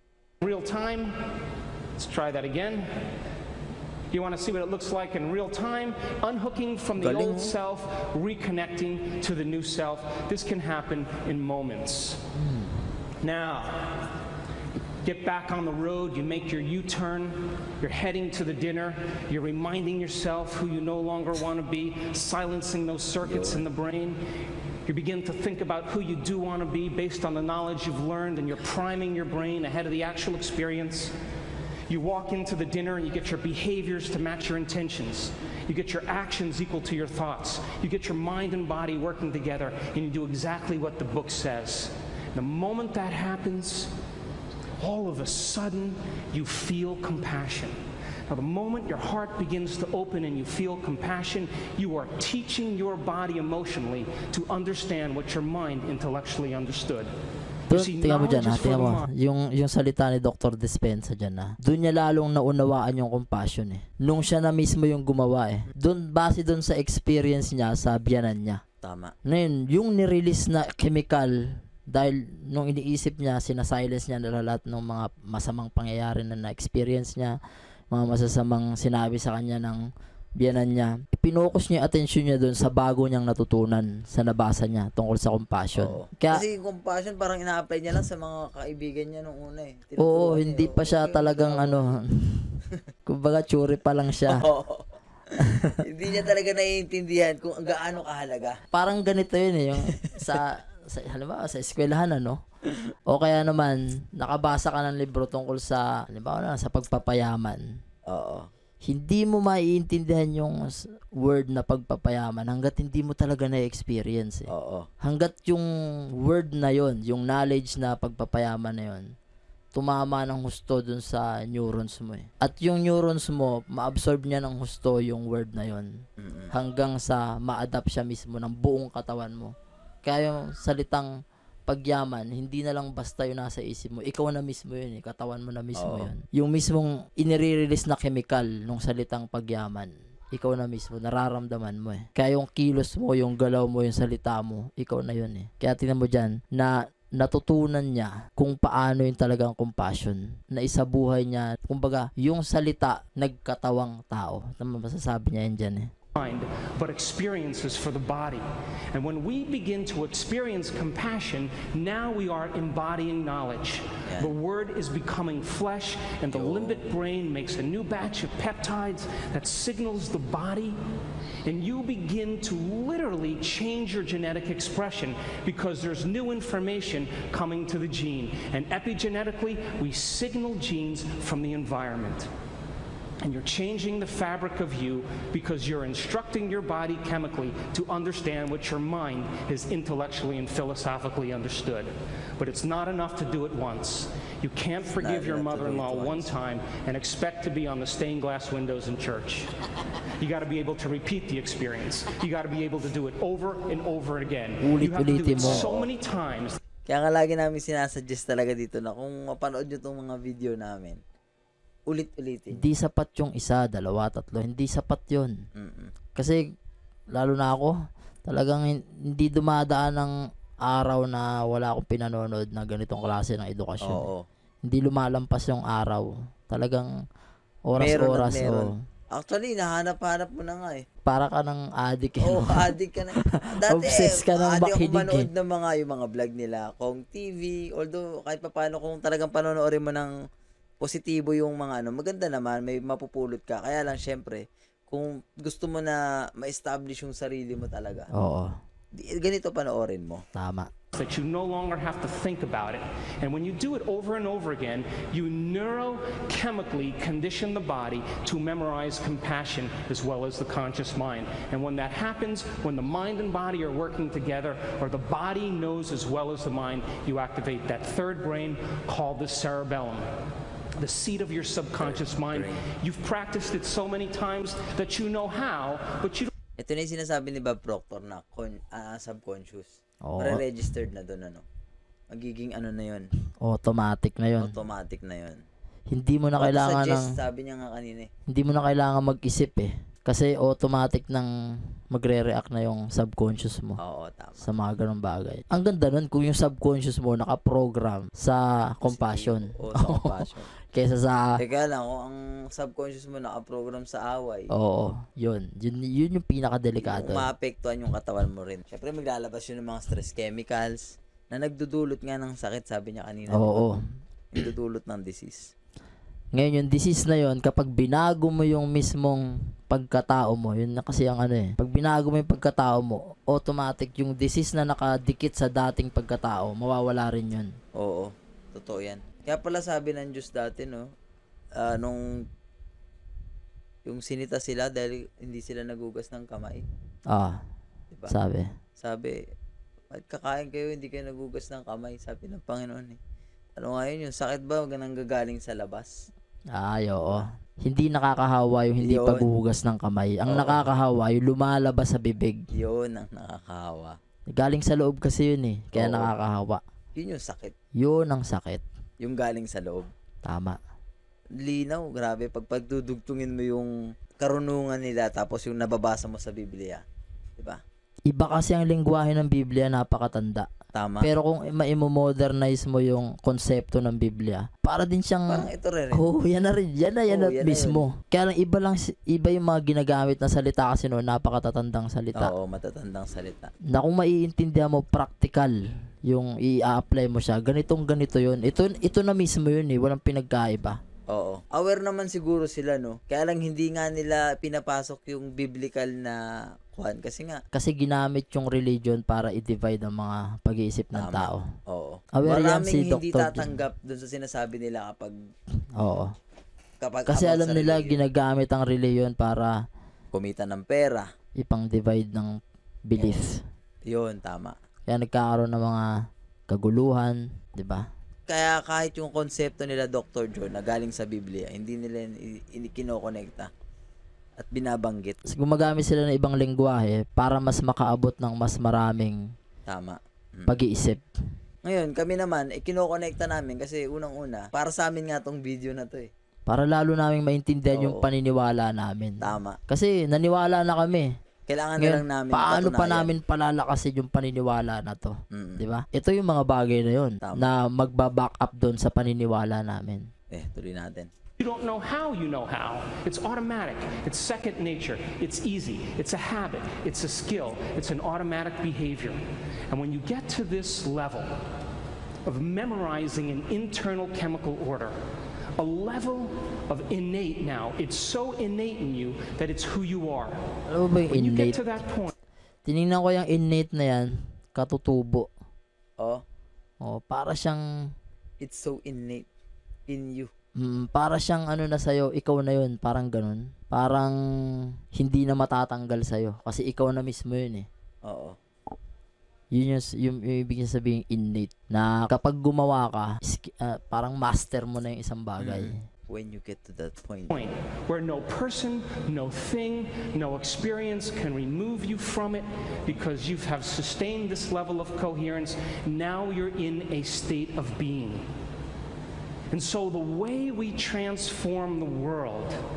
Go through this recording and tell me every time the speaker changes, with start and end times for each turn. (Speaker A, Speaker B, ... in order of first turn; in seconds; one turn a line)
Speaker A: 0.4-1.1
Speaker A: 2.0-2.9
Speaker A: 4.1-12.2
Speaker B: 7.0-7.5
Speaker C: 12.3-12.8
Speaker A: 13.2-14.1
Speaker A: 15.0-24.2
Speaker B: 23.2-23.6
Speaker A: 24.9-31.1
Speaker A: 31.9-43.9
Speaker A: 44.8-47.8
Speaker A: 48.3-57.1
Speaker C: 57.7-68.6
Speaker A: 57.7-59.1
Speaker B: 68.8-69.1
Speaker C: 69.2-77.4
Speaker C: 77.9-86.4
Speaker B: 85.8-91.9
Speaker C: 90.0-94.4
Speaker B: 94.2-98.6
Speaker C: 95.4-95.8
Speaker C: 98.7-102.4
Speaker B: 100.1-100.4
Speaker C: 103.1-107.6
Speaker B: 108.1-108.5
Speaker C: 108.8-114.5
Speaker B: 114.5-114.9
Speaker C: 115.0-115.7
Speaker C: 116.2-119.1
Speaker C: 119.7-125.9
Speaker B: 126.2-126.5
Speaker C: 126.5-129.5
Speaker C: 130.0-131.1
Speaker C: 131.7-155.9
Speaker B: 135.8-136.1
Speaker A: 156.1-170.8
Speaker B: 164.1-164.3
Speaker B: 166.3-166.8
Speaker A: 171.4-182.3
Speaker A: 183.2-199.5
Speaker B: 195.0-196.3
Speaker A: 200.1-206.6
Speaker C: 204.6-205.7
Speaker B: 205.4-205.9
Speaker B: 206.9-211.0
Speaker B: 211.9-212.7
Speaker C: 212.5-215.3
Speaker B: 215.5-215.9
Speaker C: 216.1-216.4
Speaker C: 217.1-217.7
Speaker C: 218.2-224.1
Speaker B: 223.8-224.2
Speaker C: 224.7-226.9
Speaker C: 227.7-228.8
Speaker B: 227.8-230.8
Speaker C: 231.1-235.3
Speaker B: 232.2-240.1
Speaker B: 240.8-248.1
Speaker C: 248.1-248.6
Speaker B: 248.9-250.2
Speaker C: 250.3-250.7
Speaker A: 250.9-270.1
Speaker A: 270.8-276.3
Speaker B: 271.8-272.6
Speaker B: 276.6-281.4
Speaker C: 280.0-280.4
Speaker B: 282.1-283.1
Speaker C: 283.4-284.5
Speaker B: 284.4-285.4
Speaker C: 285.9-287.1
Speaker B: 286.4-288.1
Speaker C: 288.3-291.3
Speaker C: 291.9-293.8
Speaker B: 293.8-294.5
Speaker C: 294.4-301.4
Speaker B: 298.8-300.5
Speaker B: 301.4-304.5
Speaker C: 304.5-307.3
Speaker B: 306.8-313.7
Speaker C: 313.3-313.8
Speaker B: 314.3-315.5
Speaker C: 316.3-327.5
Speaker B: 327.8-330.9
Speaker B: 331.6-332.2
Speaker B: 333.9-336.6
Speaker C: 337.1-337.4
Speaker C: 338.1-338.5
Speaker B: 338.8-339.2
Speaker B: 339.9-343.0
Speaker B: 343.6-345.9
Speaker C: 346.5-352.4
Speaker B: 348.8-349.3
Speaker B: 350.3-350.6
Speaker B: 352.5-354.0
Speaker C: 354.3-356.6
Speaker B: 355.7-356.1
Speaker B: 356.9-357.5
Speaker C: 357.8-358.6
Speaker B: 359.0-359.9
Speaker C: 360.2-360.6
Speaker B: 361.4-366.8
Speaker B: 367.4-367.6
Speaker C: 368.1-370.5
Speaker B: 370.7-371.1
Speaker C: 371.0-382.3
Speaker B: 375.3-376.0
Speaker B: 377.1-377.9
Speaker B: 382.2-383.5
Speaker C: 383.7-390.8
Speaker B: 391.1-397.4
Speaker C: 397.5-401.4
Speaker B: 400.9-405.1
Speaker C: 402.1-403.6
Speaker C: 405.8-406.1
Speaker B: 406.8-408.0
Speaker C: 407.1-409.5
Speaker B: 410.1-411.1
Speaker C: 411.4-413.4
Speaker B: 413.9-414.6
Speaker C: 414.9-415.9
Speaker C: 416.5-417.9
Speaker B: 418.3-423.5
Speaker B: 424.4-425.3
Speaker C: 425.3-429.2
Speaker B: 429.7-430.6
Speaker C: 430.5-431.0
Speaker B: 431.6-436.1
Speaker C: 436.5-441.1
Speaker B: 437.7-438.1
Speaker B: 439.2-439.6
Speaker B: 441.5-443.2
Speaker C: 441.8-450.1
Speaker B: 445.3-445.6
Speaker B: 447.2-447.5
Speaker B: 450.3-451.1
Speaker A: 451.4-459.2
Speaker A: 459.7-461.3
Speaker A: 462.2-464.9
Speaker A: 465.6-470.4
Speaker C: 470.7-471.6
Speaker A: 471.1-472.1
Speaker C: 472.6-475.3
Speaker C: 476.8-477.6
Speaker B: 478.4-479.3
Speaker B: 479.9-480.3
Speaker C: 480.6-484.1
Speaker C: 484.9-487.7
Speaker B: 488.1-488.4
Speaker C: 489.5-495.8
Speaker B: 495.4-497.4
Speaker A: 497.3-508.2
Speaker A: 509.5-512.6